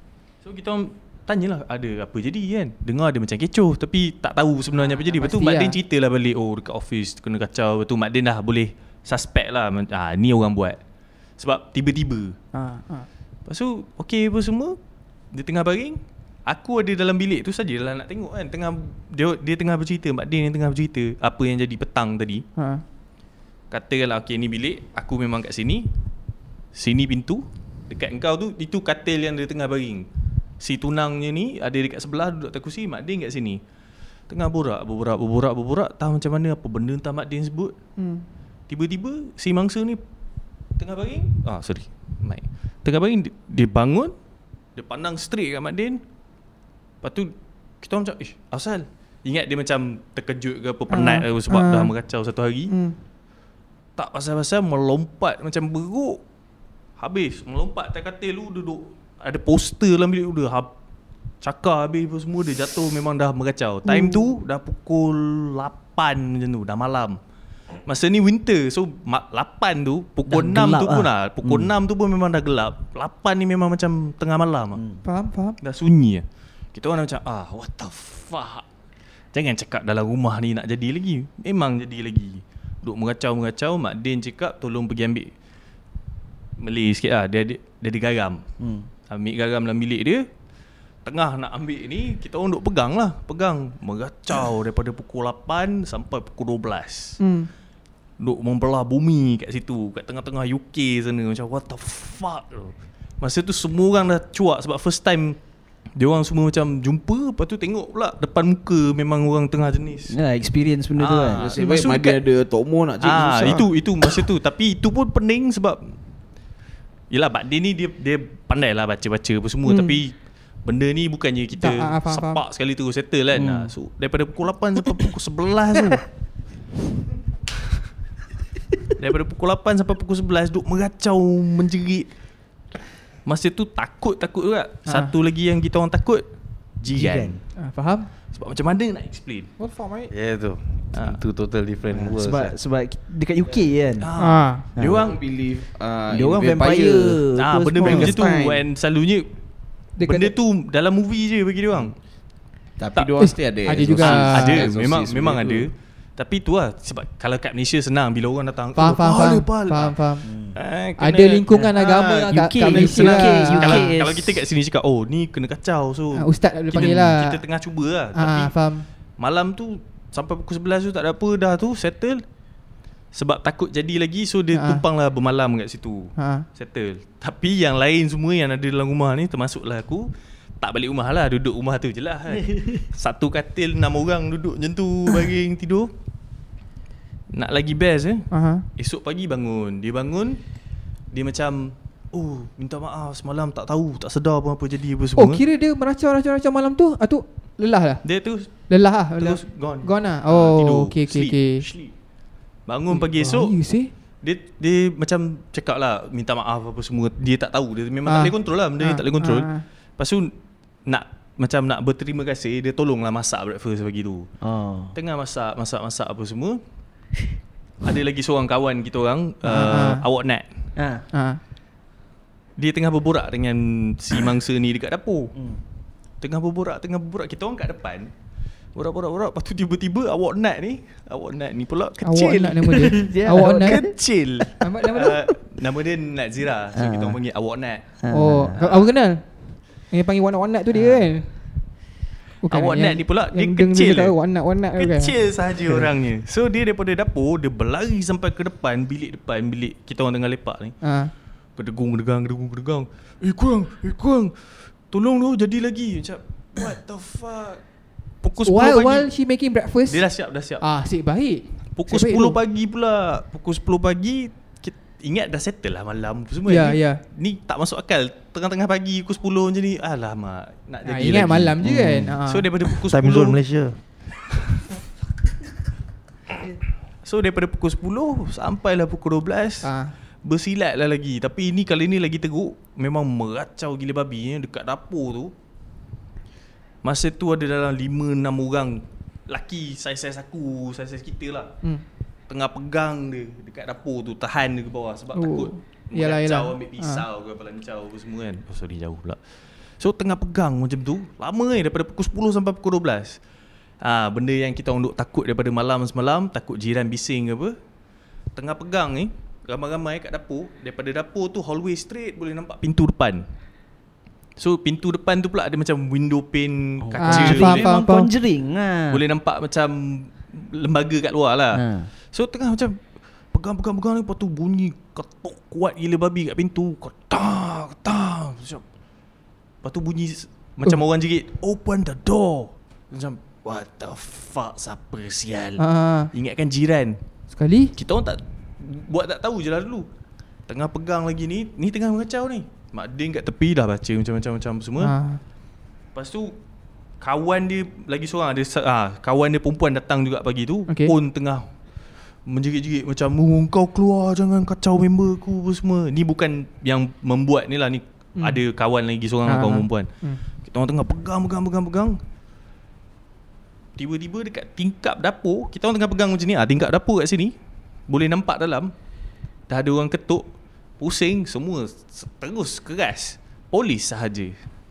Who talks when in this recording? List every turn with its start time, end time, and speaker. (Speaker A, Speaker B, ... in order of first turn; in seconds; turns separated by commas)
Speaker A: 0.4-10.8, Speaker B: 5.2-5.8, Speaker A: 11.3-12.4, Speaker B: 12.5-13.1, Speaker A: 13.5-22.4, Speaker B: 22.6-22.8, Speaker A: 23.7-25.9, Speaker A: 26.7-30.1, Speaker A: 30.6-33.6, Speaker A: 34.3-37.8, Speaker B: 38.0-38.2, Speaker A: 38.7-40.0, Speaker A: 40.6-44.1, Speaker A: 44.7-46.0, Speaker A: 47.0-52.7, Speaker B: 50.9-51.9, Speaker B: 52.7-53.0, Speaker A: 54.0-56.2, Speaker A: 57.0-60.7, Speaker A: 61.4-67.2, Speaker B: 63.9-64.2, Speaker A: 67.8-74.8, Speaker C: 70.3-71.7, Speaker C: 74.7-75.0, Speaker B: 75.0-75.6, Speaker A: 75.6-78.7, Speaker A: 79.3-85.3, Speaker A: 86.6-88.4, Speaker C: 88.6-88.9, Speaker A: 89.1-90.2, Speaker A: 91.0-97.2, Speaker B: 97.2-97.5, Speaker A: 98.2-110.2, Speaker C: 110.1-111.7, Speaker A: 111.0-112.2, Speaker D: 111.2-113.7, Speaker A: 113.0-116.0, Speaker C: 113.0-113.7, Speaker A: 117.1-126.2, Speaker B: 119.7-120.0, Speaker B: 121.6-122.4, Speaker C: 123.3-123.8, Speaker A: 129.0-132.2, Speaker A: 133.2-137.5, Speaker B: 134.9-135.1, Speaker C: 136.9-137.4, Speaker B: 137.6-138.1, Speaker A: 138.3-139.5, Speaker B: 139.6-140.1, Speaker E: 140.1-142.6, Speaker A: 140.9-141.2, Speaker C: 141.9-145.1, Speaker A: 144.0-145.2, Speaker B: 144.2-144.7, Speaker D: 144.8-147.3, Speaker C: 146.1-148.1, Speaker A: 147.3-152.0, Speaker D: 147.8-148.7, Speaker B: 150.0-150.3, Speaker D: 152.8-155.7, Speaker B: 153.2-154.7, Speaker A: 153.9-172.2, Speaker B: 158.8-160.3, Speaker C: 160.2-160.6, Speaker B: 161.0-163.9, Speaker C: 161.5-164.4, Speaker B: 166.2-167.4, Speaker B: 168.2-168.9, Speaker A: 173.1-185.9, Speaker B: 174.5-174.8, Speaker B: 176.2-176.4, Speaker A: 187.3-195.4, Speaker B: 188.3-188.7, Speaker B: 195.2-201.7, Speaker A: 198.0-202.0, Speaker A: 202.7-210.3, Speaker B: 202.9-203.9, Speaker B: 208.1-209.6, Speaker A: 210.8-216.6, Speaker C: 214.4-214.9, Speaker A: 217.8-220.7, Speaker B: 219.4-220.0, Speaker C: 220.8-221.1, Speaker B: 221.1-221.4, Speaker A: 222.6-225.3, Speaker C: 225.3-225.6, Speaker A: 226.2-228.1, Speaker A: 228.7-238.0, Speaker B: 232.0-234.1, Speaker C: 232.8-235.2, Speaker B: 234.6-235.1, Speaker C: 236.7-237.2, Speaker C: 238.0-238.6, Speaker B: 238.1-241.8, Speaker C: 240.7-241.1, Speaker B: 242.4-245.2, Speaker A: 242.5-244.2, Speaker A: 244.8-250.8, Speaker B: 250.8-251.1, Speaker A: 251.5-259.1, Speaker B: 258.4-262.4, Speaker A: 259.9-260.7, Speaker A: 261.7-271.6, Speaker B: 266.5-267.0, Speaker B: 270.9-272.5, Speaker E: 271.6-272.2, Speaker A: 272.3-273.4, Speaker E: 272.9-273.8, Speaker A: 277.0-285.3, Speaker B: 279.6-279.9, Speaker A: 286.8-291.5, Speaker A: 292.3-303.3, Speaker B: 295.1-297.1, Speaker A: 303.8-307.6, Speaker A: 308.3-313.3, Speaker A: 314.4-317.7, Speaker C: 316.8-319.0, Speaker B: 317.0-318.1, Speaker A: 318.9-328.7, Speaker C: 321.5-321.9, Speaker A: 329.6-337.0, Speaker B: 335.6-336.1, Speaker B: 337.3-337.7, Speaker A: 337.8-339.9, Speaker A: 340.5-344.9, Speaker B: 344.8-345.2, Speaker A: 345.9-346.4, Speaker A: 347.0-362.0, Speaker B: 350.7-350.9, Speaker B: 358.2-358.4, Speaker B: 359.2-360.2, Speaker A: 363.8-367.4, Speaker A: 367.9-368.7, Speaker A: 369.5-370.3, Speaker A: 370.8-374.5